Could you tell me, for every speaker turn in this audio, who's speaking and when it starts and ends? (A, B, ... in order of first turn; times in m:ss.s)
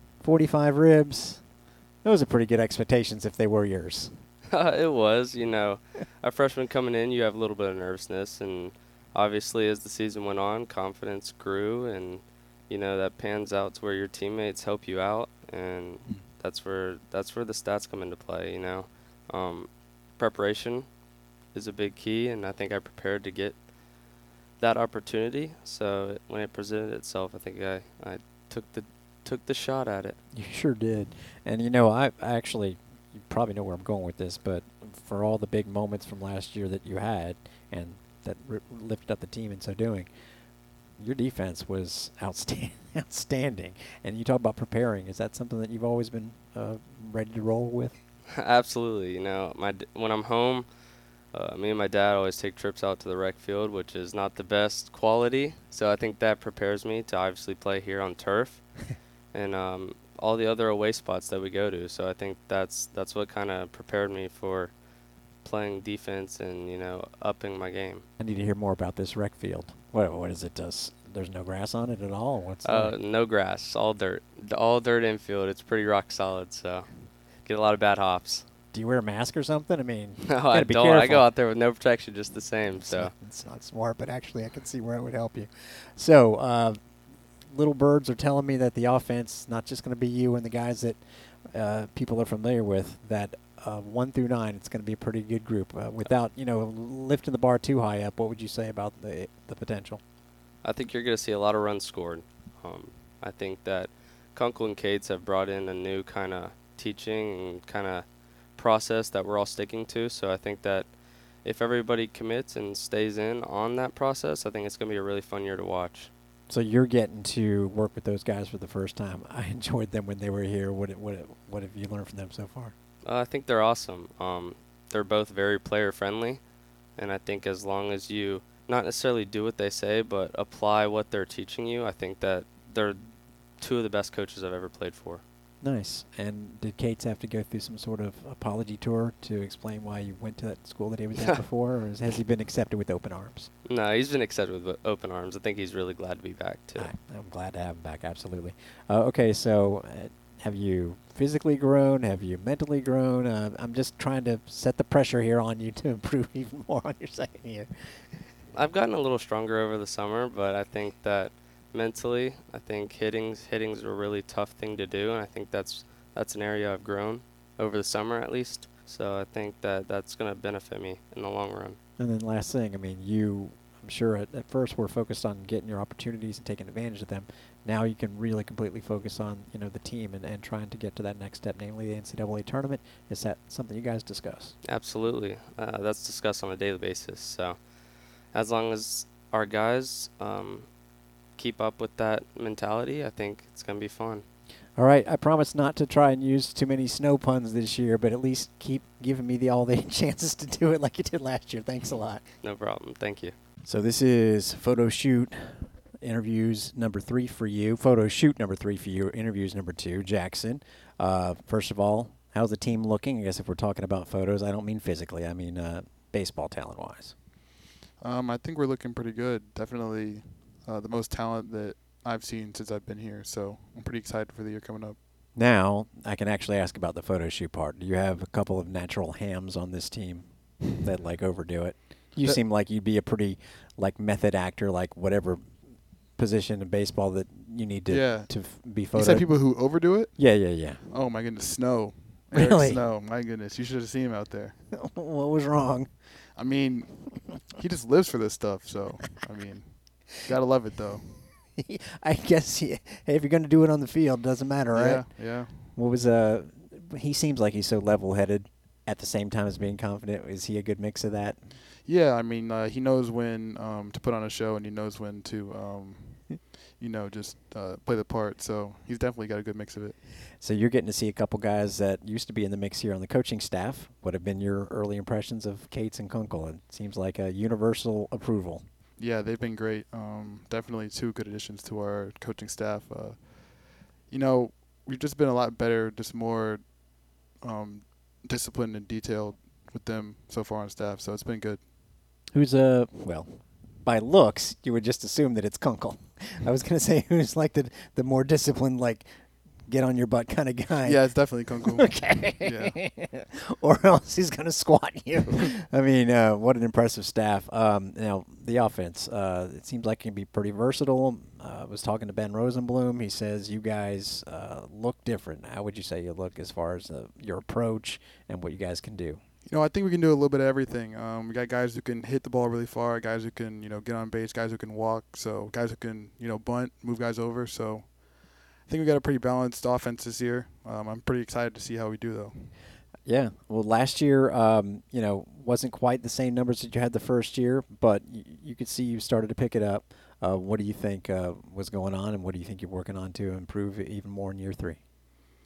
0:00.2-0:01.5 A
0:02.0-0:04.2 A
0:04.5-0:30.2 B
0:30.3-0:48.0 A
0:48.4-1:08.0 B
1:08.2-1:13.0 A
1:12.6-1:18.4 B
1:18.7-1:21.3 A
1:20.3-1:23.1 B
1:22.7-1:40.0 A
1:40.6-1:56.1 B
1:56.5-2:02.7 A
2:03.0-2:15.2 B
2:15.6-2:23.5 A
2:23.6-2:27.0 B
2:26.8-2:38.4 A
2:38.5-2:51.8 B
2:52.0-3:04.6 A
3:04.6-3:10.8 B
3:11.3-3:14.2 B
3:14.8-3:22.2 A
3:22.4-3:23.4 B
3:23.6-3:37.2 A
3:38.0-3:45.0 C
3:45.4-4:00.9 A
3:57.9-4:04.6 C
4:02.3-4:02.8 A
4:04.7-4:06.1 A
4:06.4-4:11.2 C
4:11.5-4:21.6 A
4:14.7-4:15.7 C
4:21.8-4:30.0 C
4:30.4-4:38.7 A
4:39.0-4:51.6 C
4:52.3-4:59.1 A
4:59.6-5:19.2 A
5:00.8-5:02.8 C
5:19.4-5:32.6 C
5:33.0-5:44.8 A